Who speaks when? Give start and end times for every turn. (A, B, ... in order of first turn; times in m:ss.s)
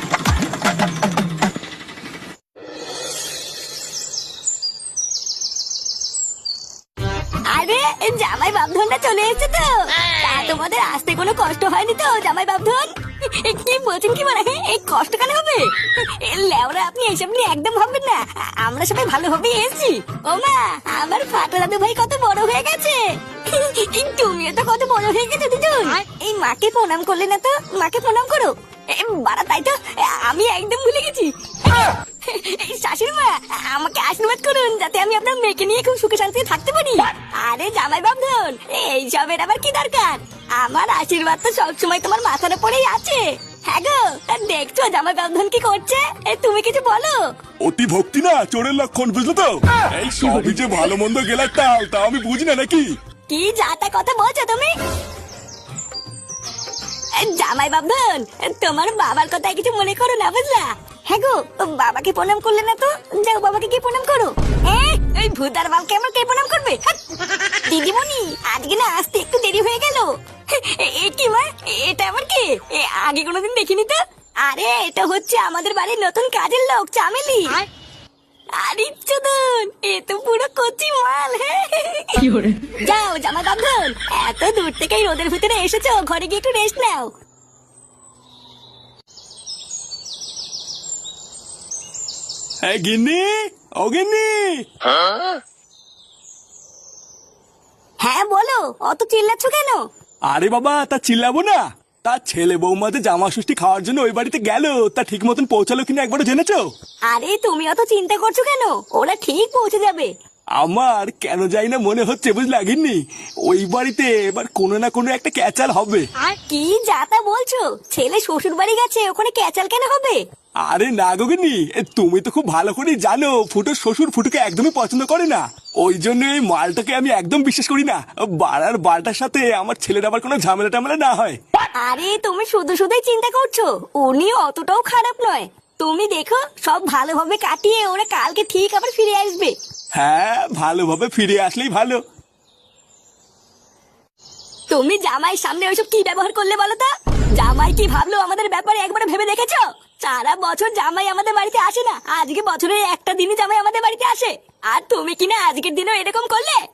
0:07.5-0:47.2 A
0:47.6-0:52.9 B
0:53.3-0:54.7 A
0:57.2-1:07.0 A
1:07.6-1:17.6 A
1:18.6-1:27.1 A
1:32.6-1:34.6 B
1:38.0-1:39.8 A
1:40.3-1:46.6 B
1:47.1-1:50.1 A
1:50.6-1:56.1 B
1:56.2-2:00.2 A
2:00.6-2:11.4 B
2:11.8-2:19.5 A
2:20.0-2:22.0 B
2:24.7-2:36.6 A